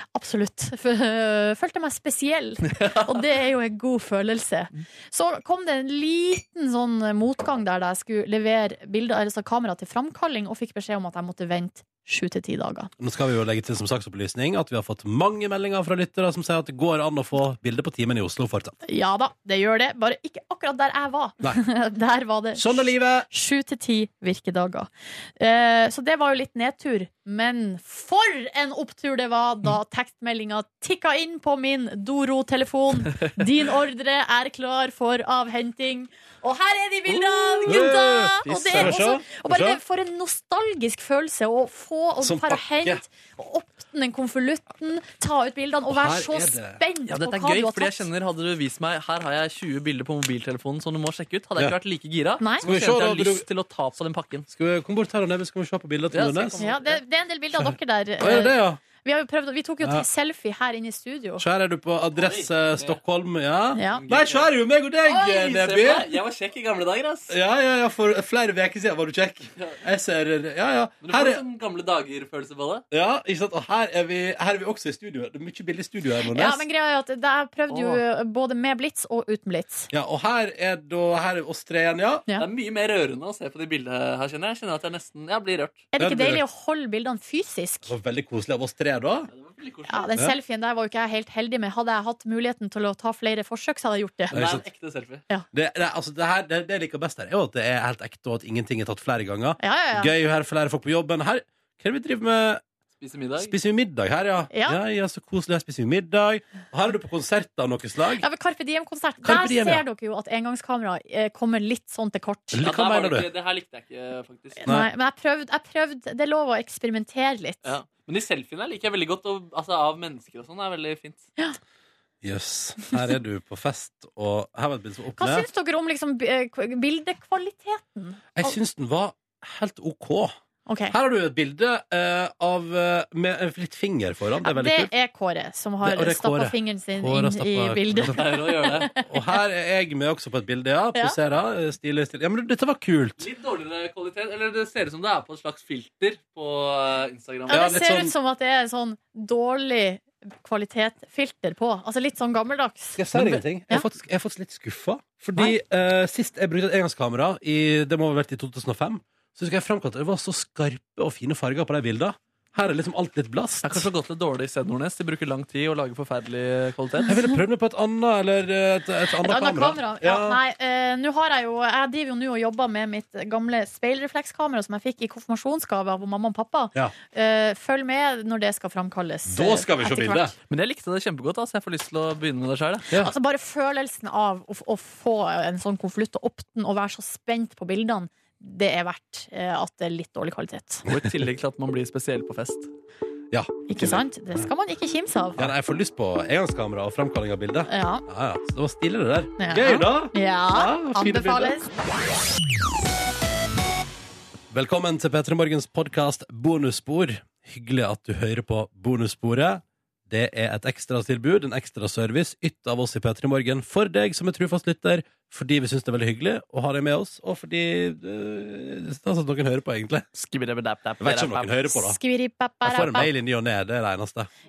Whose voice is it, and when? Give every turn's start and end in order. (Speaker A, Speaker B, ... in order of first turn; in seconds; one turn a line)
Speaker A: 0.1-12.9
Speaker B: 2.7-3.1
Speaker C: 13.0-18.8
Speaker A: 18.9-48.1
Speaker C: 22.5-23.3
Speaker B: 37.1-39.0
Speaker C: 37.7-39.8
Speaker C: 42.2-43.0
Speaker C: 45.9-46.8
Speaker B: 47.1-54.5
Speaker A: 52.4-52.6
Speaker C: 52.6-53.5
Speaker C: 54.5-56.6
Speaker B: 56.1-57.0
Speaker A: 56.6-61.4
Speaker C: 58.2-58.8
Speaker C: 61.4-66.1
Speaker B: 62.2-63.0
Speaker A: 63.7-64.0
Speaker B: 63.9-64.5
Speaker B: 65.0-67.3
Speaker C: 67.3-71.4
Speaker B: 71.0-72.8
Speaker C: 72.9-76.6
Speaker A: 76.3-79.9
Speaker B: 77.7-78.0
Speaker C: 79.9-82.2
Speaker B: 82.4-85.9
Speaker A: 85.9-87.9
Speaker C: 86.0-86.4
Speaker C: 87.8-89.3
Speaker B: 89.3-90.1
Speaker A: 89.9-94.3
Speaker B: 94.3-95.2
Speaker C: 94.3-94.6
Speaker C: 95.5-102.6
Speaker A: 99.6-100.1
Speaker B: 103.0-103.5
Speaker C: 103.4-108.2
Speaker A: 104.5-104.8
Speaker A: 108.2-112.6
Speaker C: 109.2-109.8
Speaker C: 112.5-113.3
Speaker B: 112.6-114.6
Speaker A: 114.6-117.7
Speaker B: 117.6-121.2
Speaker C: 122.2-125.5
Speaker A: 125.2-128.6
Speaker C: 128.3-130.3
Speaker A: 130.7-130.9
Speaker C: 130.9-134.9
Speaker A: 134.4-139.4
Speaker C: 135.8-143.2
Speaker B: 138.0-138.9
Speaker B: 143.2-147.6
Speaker A: 147.5-153.8
Speaker C: 147.5-148.1
Speaker C: 152.9-163.9
Speaker B: 163.6-167.1
Speaker C: 167.1-170.4
Speaker A: 169.2-180.3
Speaker C: 179.2-180.3
Speaker B: 180.5-182.9
Speaker A: 182.9-190.8
Speaker B: 190.9-192.7
Speaker C: 193.3-194.5
Speaker A: 193.7-195.5
Speaker C: 195.4-201.6
Speaker A: 197.7-198.0
Speaker A: 199.4-201.7
Speaker C: 204.5-220.1
Speaker B: 220.1-221.6
Speaker C: 221.0-222.0
Speaker A: 221.7-223.1
Speaker C: 222.6-224.3